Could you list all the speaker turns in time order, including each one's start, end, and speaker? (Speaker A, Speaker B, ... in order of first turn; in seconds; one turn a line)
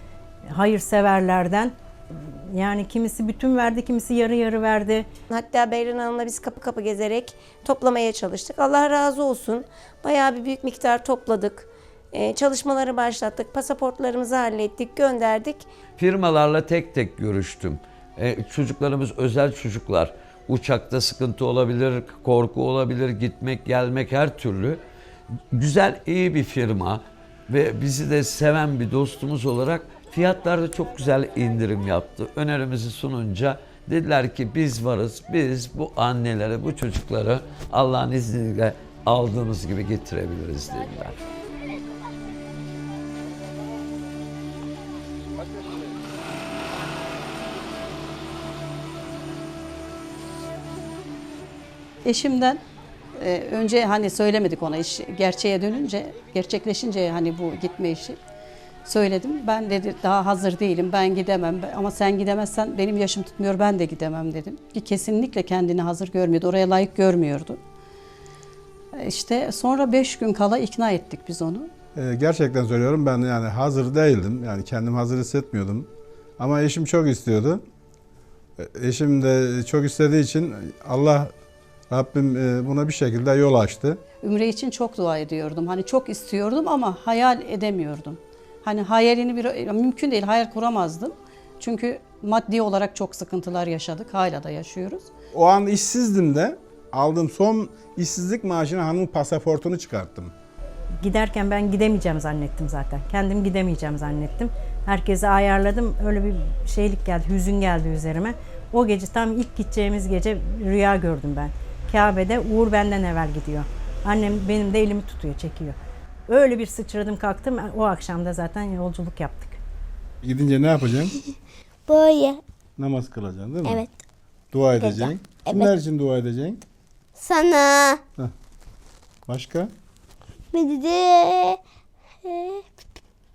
Speaker A: 0.5-5.1
Speaker B: 5.3-15.7
Speaker C: 16.0-24.8
Speaker C: 25.5-41.2
Speaker D: 52.0-52.6
Speaker D: 53.1-58.2
Speaker D: 58.8-67.6
Speaker D: 68.9-71.7
Speaker E: 71.9-75.9
Speaker E: 76.4-77.6
Speaker E: 78.6-81.3
Speaker E: 81.9-84.0
Speaker D: 84.2-95.1
Speaker E: 95.3-100.3
Speaker A: 101.0-115.8
Speaker A: 116.3-119.6
Speaker E: 120.2-121.1
Speaker F: 121.9-122.4
Speaker E: 122.8-123.8
Speaker F: 123.7-124.0
Speaker E: 124.5-126.6
Speaker F: 124.8-125.7
Speaker F: 127.2-128.0
Speaker E: 129.2-129.7
Speaker F: 130.5-131.6
Speaker F: 132.2-132.7